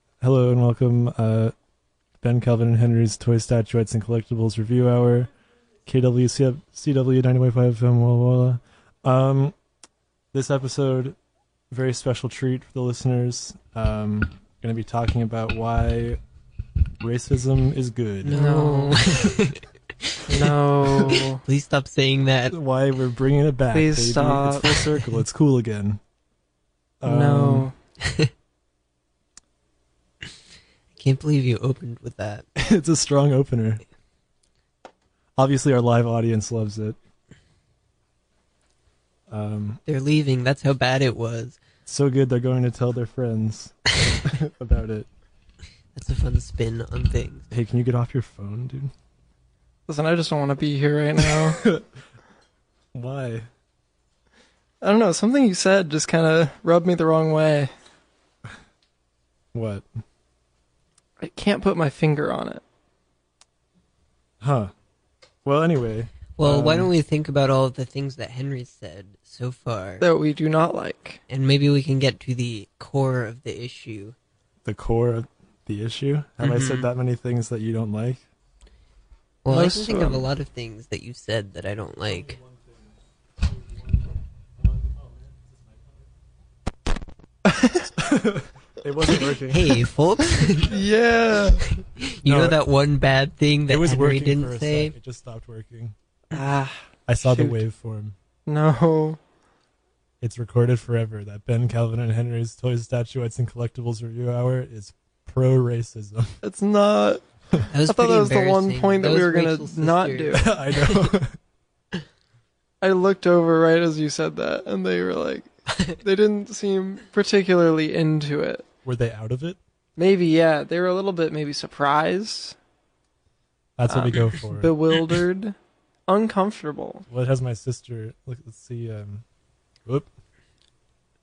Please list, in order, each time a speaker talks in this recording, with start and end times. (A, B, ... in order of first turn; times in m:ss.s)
0:00.2-0:01.5 A
0:02.2-0:05.3 A
0:05.9-0:09.6 A
0:10.3-0:11.2 A
0:11.7-0:16.2 A
0:17.0-0:18.4 A
0:18.2-0:22.6 B
0:18.3-0:19.0 C
0:20.3-0:21.4 C
0:22.5-0:26.0 A
0:23.7-0:25.0 C
0:27.0-0:27.7 A
0:27.0-0:27.7 C
0:28.0-0:28.3 B
0:31.0-0:32.5 B
0:32.6-0:33.8 A
0:35.4-0:37.0 A
0:39.3-0:39.8 A
0:39.9-0:41.6 B
0:41.9-0:45.1 A
0:46.0-0:47.5 B
0:47.5-0:48.9 A
0:49.9-0:51.6 C
0:51.2-0:51.9 A
0:52.9-0:53.5 A
0:54.8-0:57.7 C
0:59.5-0:59.9 A
1:01.2-1:02.6 C
1:04.4-1:04.7 A
1:05.4-1:06.9 A
1:06.4-1:10.0 B
1:10.0-1:11.2 C
1:11.3-1:14.2 B
1:14.6-1:18.2 A
1:16.4-1:16.9 B
1:19.4-1:22.4 B
1:19.5-1:20.3 C
1:22.0-1:26.1 A
1:27.5-1:27.9 C
1:28.0-1:29.9 A
1:29.5-1:30.8 B
1:30.6-1:31.6 C
1:31.6-1:35.0 B
1:32.2-1:32.6 A
1:33.7-1:36.0 A
1:36.3-1:37.6 C
1:37.1-1:38.2 A
1:38.5-1:39.2 C
1:40.2-1:46.4 A
1:46.4-1:47.2 C
1:47.7-1:51.1 B
1:47.9-1:50.5 C
1:50.4-1:51.4 A
1:52.8-1:58.7 C
1:55.7-1:56.0 B
1:58.8-1:59.6 A
2:00.0-2:02.6 C
2:03.8-2:04.8 A
2:03.9-2:05.6 C
2:06.1-2:07.0 C
2:07.1-2:09.2 A